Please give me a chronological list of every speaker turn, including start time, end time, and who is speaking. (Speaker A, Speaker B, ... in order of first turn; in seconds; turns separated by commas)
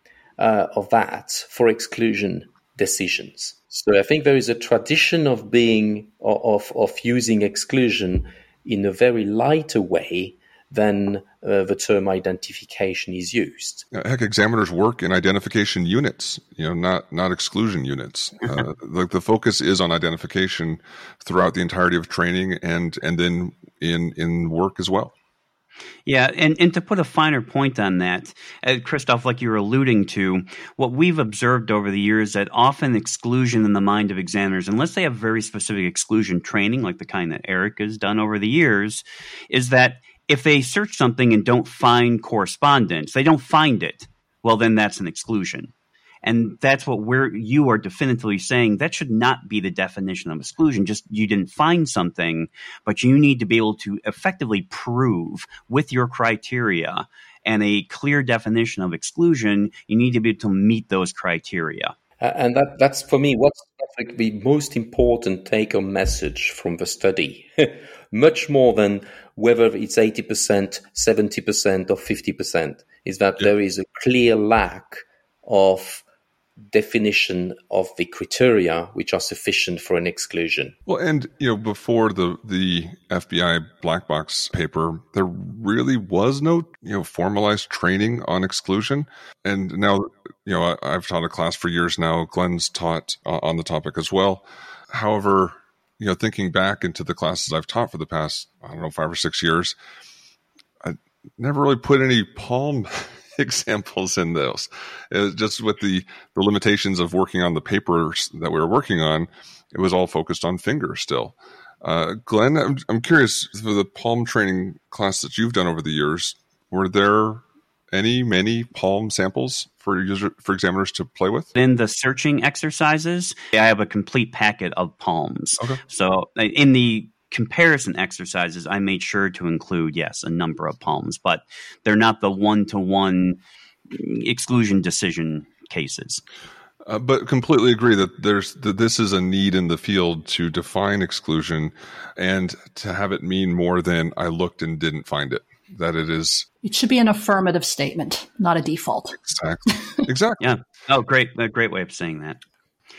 Speaker A: 0.4-13.8, Speaker B: 13.9-25.1, Speaker C: 26.1-45.7, Speaker C: 46.2-61.9, Speaker A: 62.2-76.0, Speaker A: 76.7-80.8, Speaker B: 80.9-99.8, Speaker B: 100.8-121.5, Speaker C: 121.5-133.4, Speaker C: 133.9-136.2, Speaker B: 136.8-146.5, Speaker D: 146.6-149.2, Speaker B: 149.2-150.5, Speaker C: 150.4-152.4